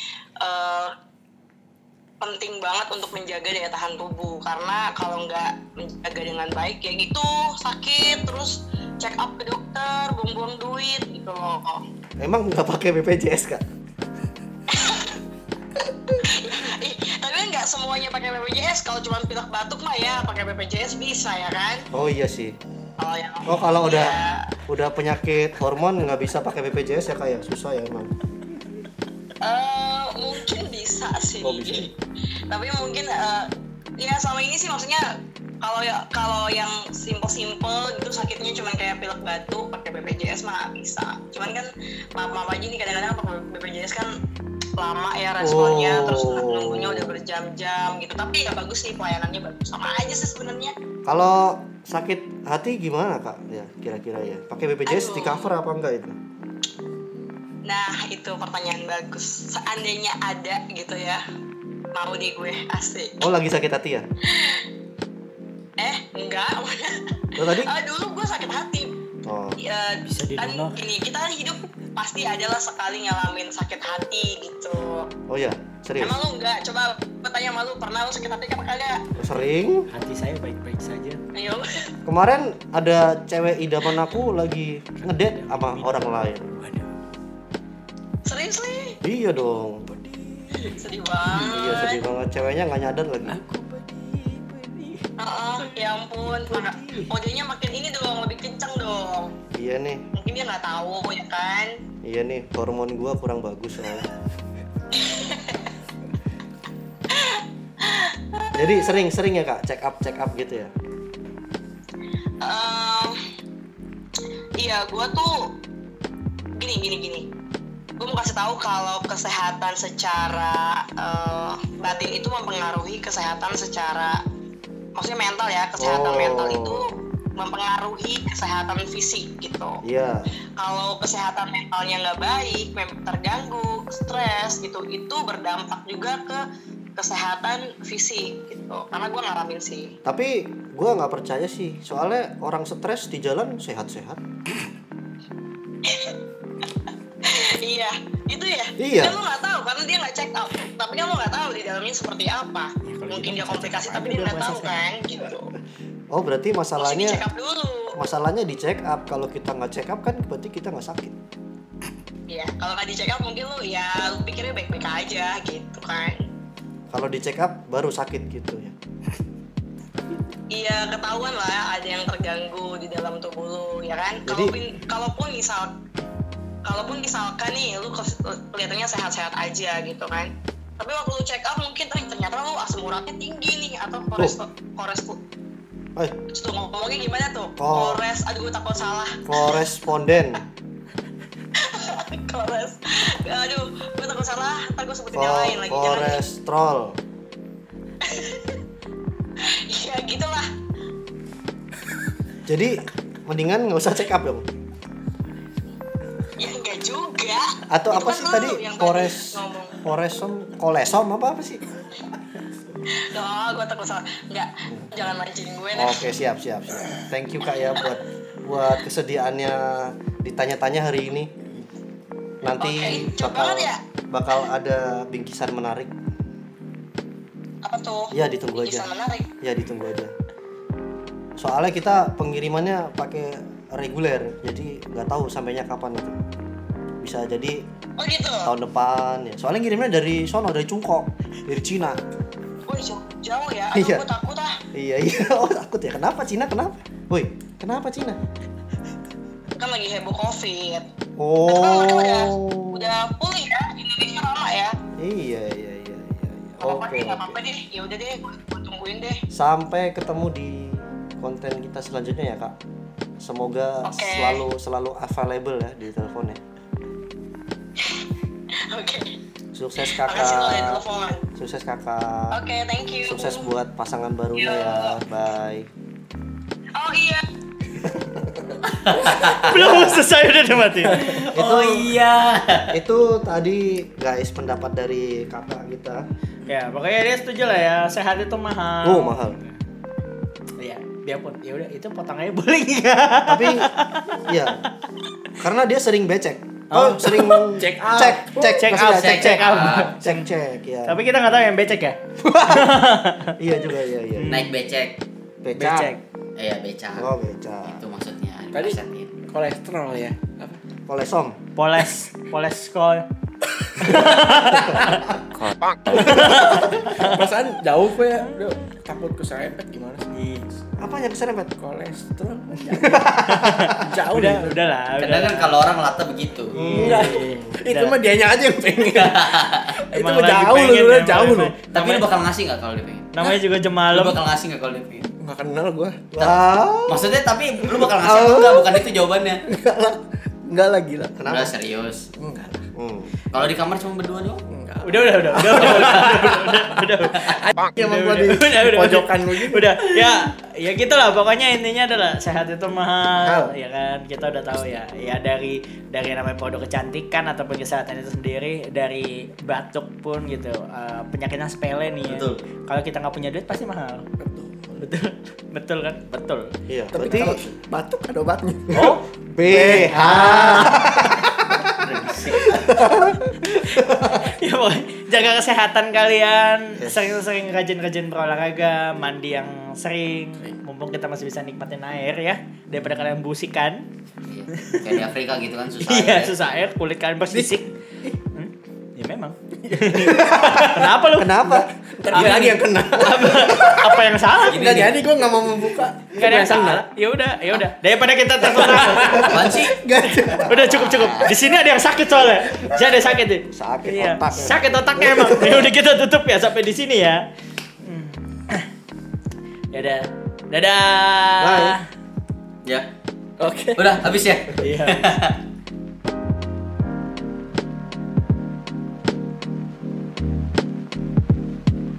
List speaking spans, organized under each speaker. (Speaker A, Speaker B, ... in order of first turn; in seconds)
Speaker A: 0.4-0.9, 2.2-11.8, 14.7-15.2, 16.2-21.9, 23.0-24.5, 29.4-31.9, 32.5-35.0, 35.6-44.1, 44.8-50.7, 54.9-55.5, 57.6-61.2, 61.9-63.2, 64.3-64.6, 65.8-68.9, 69.6-75.0, 76.0-79.0, 81.3-81.9, 88.2-89.0, 90.8-92.0, 95.2-99.3, 100.1-101.7, 104.9-105.7, 107.1-108.6, 112.4-113.2, 114.6-115.5, 116.6-117.2, 118.0-124.2, 125.0-129.8, 130.6-136.4, 136.9-139.9, 145.8-146.7, 147.2-155.5, 156.8-157.9, 162.3-166.2, 170.5-175.8, 176.6-185.2, 186.3-189.6, 191.5-196.2, 198.0-198.6, 199.4-200.5, 206.4-209.8, 212.9-216.0, 222.6-223.8, 227.6-229.3, 238.0-238.5, 242.7-244.6, 249.6-250.8, 251.4-254.8, 256.6-259.2, 263.8-264.4, 267.8-268.0, 268.7-269.2, 269.8-271.2, 272.3-273.5, 274.4-275.0, 276.7-277.2
Speaker B: 12.2-13.6, 21.9-22.6, 23.4-28.1, 31.4-31.9, 45.4-47.1, 51.1-56.1, 63.2-64.1, 67.4-67.7, 69.2-69.6, 75.3-76.1, 79.2-79.9, 82.0-86.5, 89.0-89.9, 91.4-93.4, 99.5-100.0, 102.0-104.1, 108.5-110.7, 125.8-127.0, 129.8-130.3, 140.0-144.2, 148.8-149.2, 156.1-157.2, 158.0-161.1, 166.9-168.7, 174.3-174.5, 187.6-188.0, 189.3-190.4, 195.2-197.0, 202.4-204.4, 207.7-211.7, 215.7-221.3, 222.4-225.9, 228.1-228.8, 229.4-230.1, 231.4-236.2, 237.0-237.6, 238.4-242.0, 243.7-244.0, 244.7-248.2, 251.2-252.9, 255.0-257.4, 259.3-262.5, 263.2-266.4, 269.5-270.8, 271.4-272.4, 273.0-275.7, 277.8-278.6, 279.4-280.0, 281.3-282.0, 282.7-286.1, 288.8-289.4, 293.2-293.7, 294.2-294.6, 295.4-301.0, 302.2-302.7, 303.4-304.4, 305.4-305.9, 306.9-307.8, 310.9-311.4, 314.7-314.9, 316.4-316.9, 320.8-321.5, 322.7-323.9, 326.6-327.6, 336.1-337.1, 337.9-338.9, 341.2-341.5, 342.7-343.1, 366.7-367.4, 369.3-371.7, 372.5-373.1, 373.7-374.2, 376.8-377.1, 390.0-392.4, 403.5-405.7, 411.4-411.8
Speaker C: 70.0-70.8, 79.9-81.2, 85.0-86.1, 90.5-90.8, 93.3-93.9, 94.5-94.8, 96.5-97.1, 279.0-281.2, 286.4-289.5, 290.6-294.1, 296.7-297.4, 298.4-300.2, 300.9-303.4, 304.1-304.5, 305.6-306.0, 311.6-313.0, 313.8-315.0, 315.9-317.2, 320.1-320.5, 323.2-325.5, 326.5-328.0, 329.9-332.1, 333.1-334.2, 344.8-364.1, 364.8-367.4, 368.7-369.0, 369.9-371.1, 373.7-383.9, 384.6-384.9, 385.8-387.8, 388.3-391.4, 392.1-394.9, 396.1-399.4, 400.4-407.2, 407.8-408.6, 409.7-411.8, 414.6-415.0
Speaker D: 86.6-86.9, 89.9-90.7, 93.5-95.0, 96.6-97.0, 152.8-154.7, 297.5-298.6, 308.5-310.6, 315.9-320.1, 321.6-323.1, 323.8-324.6, 326.6-331.5, 335.2-336.0, 339.4-341.1, 342.2-342.7, 344.5-349.9, 353.1-353.5, 364.2-364.8, 366.9-369.0, 369.5-371.0, 387.3-388.2, 389.7-390.8, 391.4-396.8, 398.4-400.6, 413.4-413.8
Speaker E: 278.7-279.8, 280.9-282.7, 298.8-299.9, 304.3-305.0, 306.4-307.1, 307.6-309.1, 315.3-316.3, 325.0-326.6, 328.8-329.8, 331.7-333.4, 333.9-335.1, 336.2-339.4, 341.3-342.1, 343.3-344.4, 362.1-362.4, 371.8-372.6, 384.3-386.5, 394.4-395.0, 399.1-399.8, 400.4-401.3, 413.8-415.4